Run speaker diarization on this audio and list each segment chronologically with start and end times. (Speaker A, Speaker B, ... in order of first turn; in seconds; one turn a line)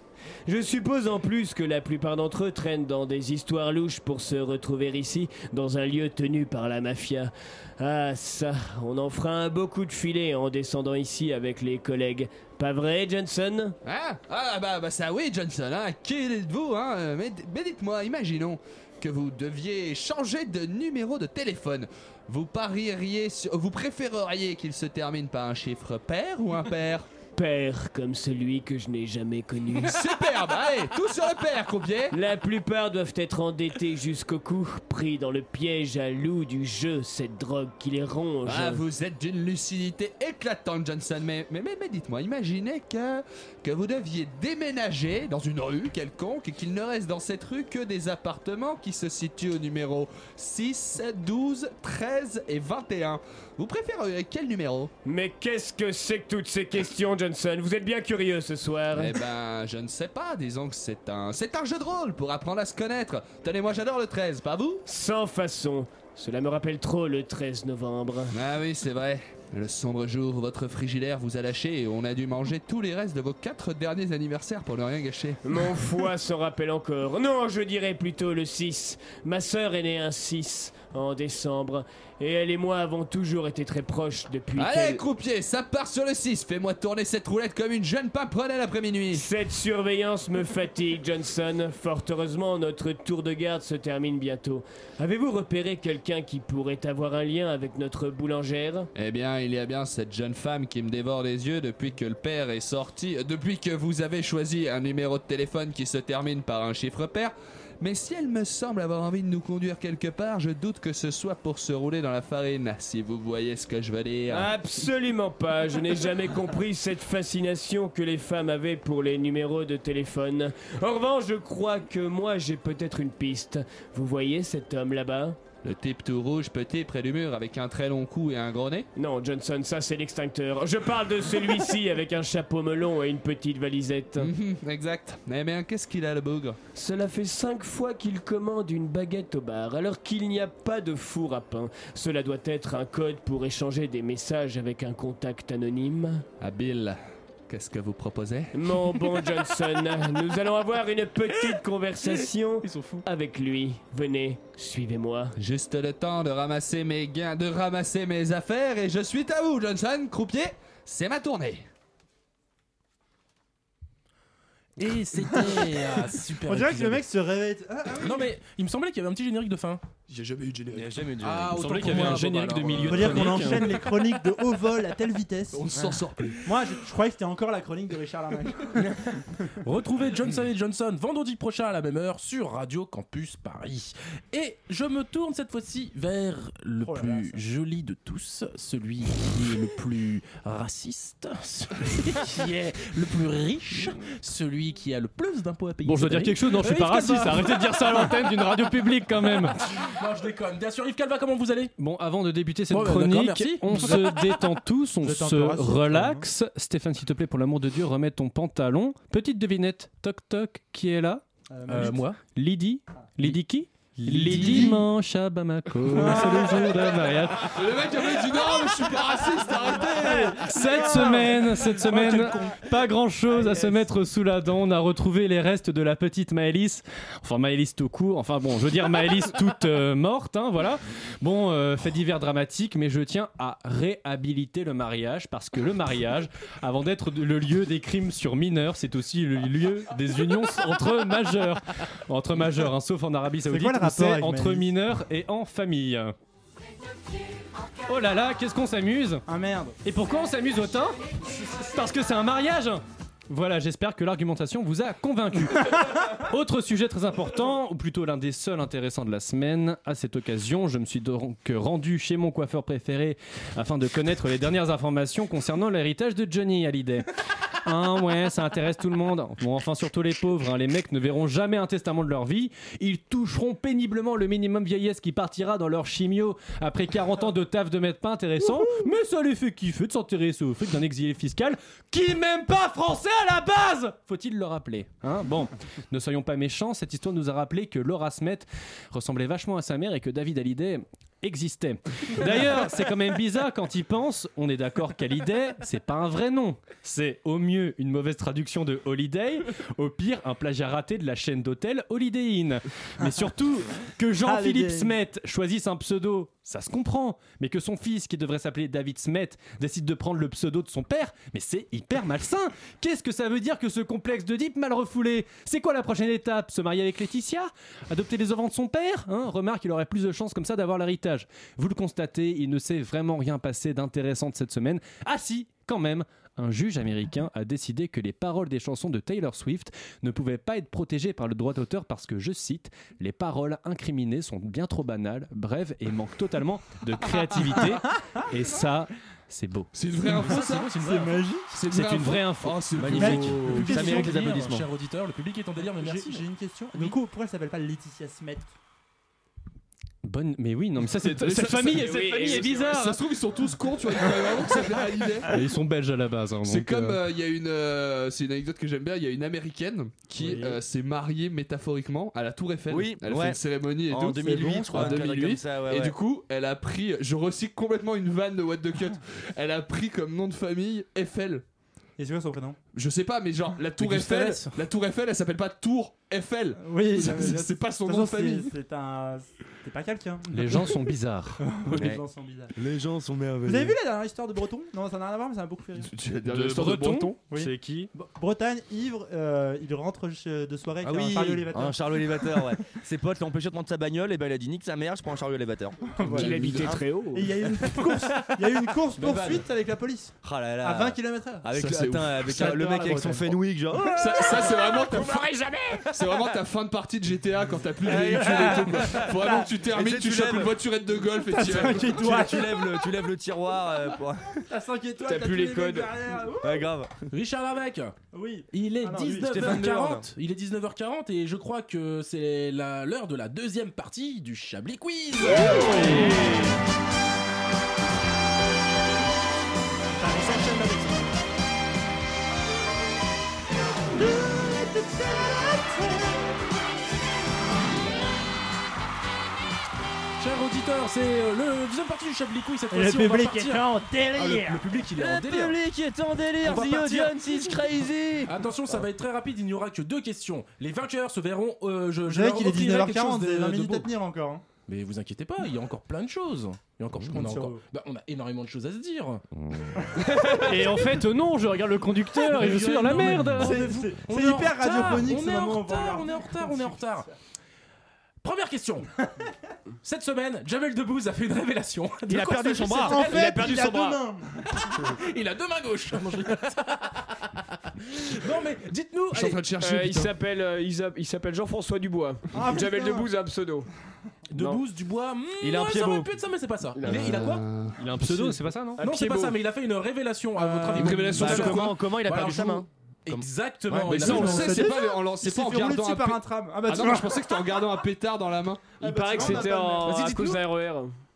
Speaker A: 0.5-13.8
Speaker B: 13.8-27.1
Speaker A: 27.4-30.1
Speaker B: 29.8-32.1
Speaker A: 32.1-38.8
Speaker B: 38.5-54.9
Speaker A: 55.0-59.2
Speaker B: 58.9-64.8
Speaker A: 64.9-68.3
Speaker B: 68.3-75.4
Speaker A: 75.4-85.0
Speaker B: 84.6-89.2
Speaker A: 89.1-98.9
Speaker B: 98.9-114.5
Speaker A: 114.3-125.4
Speaker B: 125.6-128.9
Speaker A: 128.9-134.3
Speaker B: 134.2-136.6
Speaker A: 136.7-146.2
Speaker B: 146.4-147.0
Speaker B: 147.5-148.5
Speaker A: 148.5-155.3
Speaker C: 152.6-153.0
Speaker B: 155.4-161.7
Speaker C: 164.8-167.0
Speaker D: 165.2-168.3
Speaker C: 168.0-169.8
Speaker B: 170.1-171.0
Speaker E: 170.7-172.2
Speaker C: 171.2-173.9
Speaker F: 171.6-173.7
Speaker D: 172.8-175.6
Speaker B: 175.5-176.4
Speaker D: 176.4-179.5
Speaker C: 178.8-179.0
Speaker C: 179.6-198.1
Speaker D: 186.8-187.4
Speaker F: 195.8-199.6
Speaker C: 199.8-201.7
Speaker F: 201.8-211.2
Speaker C: 202.7-204.4
Speaker D: 205.0-206.3
Speaker D: 211.5-212.0
Speaker C: 211.7-212.2
Speaker F: 212.2-217.5
Speaker C: 214.0-214.8
Speaker B: 214.2-214.8
Speaker B: 215.8-216.6
Speaker D: 215.9-216.9
Speaker B: 217.4-220.5
Speaker D: 219.6-222.5
Speaker F: 220.2-246.1
Speaker C: 221.9-222.3
Speaker D: 243.5-244.7
Speaker F: 247.9-249.2
Speaker D: 249.3-249.8
Speaker F: 249.8-267.1
Speaker F: 267.6-339.7
Speaker D: 304.2-305.0
Speaker B: 339.7-340.7
Speaker C: 340.0-341.2
Speaker D: 340.8-341.5
Speaker B: 341.5-343.7
Speaker F: 341.7-343.1
Speaker C: 342.8-346.9
Speaker D: 342.9-344.2
Speaker E: 343.1-344.7
Speaker D: 345.6-348.5
Speaker F: 350.0-353.0
Speaker B: 351.2-355.3
Speaker G: 351.7-352.5
Speaker A: 351.9-352.7
Speaker F: 355.3-357.0
Speaker B: 356.4-371.4
Speaker E: 362.7-365.9
Speaker D: 364.3-365.0
Speaker D: 372.0-372.6
Speaker B: 372.7-378.5
Speaker C: 373.8-374.6
Speaker D: 376.6-380.9
Speaker F: 380.3-381.4
Speaker D: 381.4-382.5
Speaker E: 381.7-382.0
Speaker E: 382.6-383.7
Speaker D: 383.4-385.9
Speaker B: 385.8-387.1
Speaker F: 386.2-387.9
Speaker D: 387.3-392.5
Speaker E: 390.8-396.0
Speaker D: 395.9-396.6
Speaker B: 396.0-396.8
Speaker A: 396.1-397.9
Speaker D: 397.1-401.4
Speaker E: 399.0-399.4
Speaker C: 399.0-399.4
Speaker E: 400.2-404.0
Speaker B: 401.5-402.6
Speaker D: 402.2-404.8
Speaker B: 403.9-405.3
Speaker A: 404.9-405.9
Speaker B: 405.9-412.1
Speaker D: 407.8-409.5
Speaker E: 407.8-410.6
Speaker D: 411.2-412.9
Speaker E: 411.9-414.4
Speaker D: 414.3-416.7
Speaker G: 415.0-415.9
Speaker E: 416.4-417.0
Speaker C: 417.1-418.0
Speaker D: 418.1-419.4
Speaker C: 418.5-426.2
Speaker E: 419.3-420.1
Speaker D: 425.3-426.4
Speaker E: 425.6-426.4
Speaker D: 430.0-431.1
Speaker D: 433.9-436.3
Speaker C: 440.2-443.6
Speaker D: 442.7-444.7
Speaker C: 444.2-445.6
Speaker E: 445.0-448.3
Speaker C: 446.4-447.6
Speaker C: 448.2-453.9
Speaker D: 452.1-454.4
Speaker C: 454.7-459.2
Speaker D: 457.0-457.6
Speaker E: 459.3-459.9
Speaker D: 460.0-460.3
Speaker F: 460.3-463.6
Speaker C: 462.2-467.1
Speaker D: 463.3-467.0
Speaker C: 468.2-468.9
Speaker C: 469.8-473.3
Speaker E: 472.1-472.9
Speaker D: 472.9-474.7
Speaker G: 473.0-474.0
Speaker C: 474.7-479.4
Speaker B: 479.1-480.1
Speaker G: 479.6-483.7
Speaker D: 482.3-483.1
Speaker C: 484.3-487.4
Speaker G: 484.3-484.6
Speaker E: 485.4-486.1
Speaker G: 486.7-487.3
Speaker B: 486.8-487.8
Speaker F: 487.8-488.8
Speaker C: 488.0-494.7
Speaker G: 488.8-489.4
Speaker D: 490.4-491.2
Speaker B: 490.8-491.8
Speaker E: 491.1-492.7
Speaker D: 493.7-497.6
Speaker B: 493.8-499.4
Speaker D: 498.8-500.1
Speaker G: 498.8-500.9
Speaker C: 499.8-500.4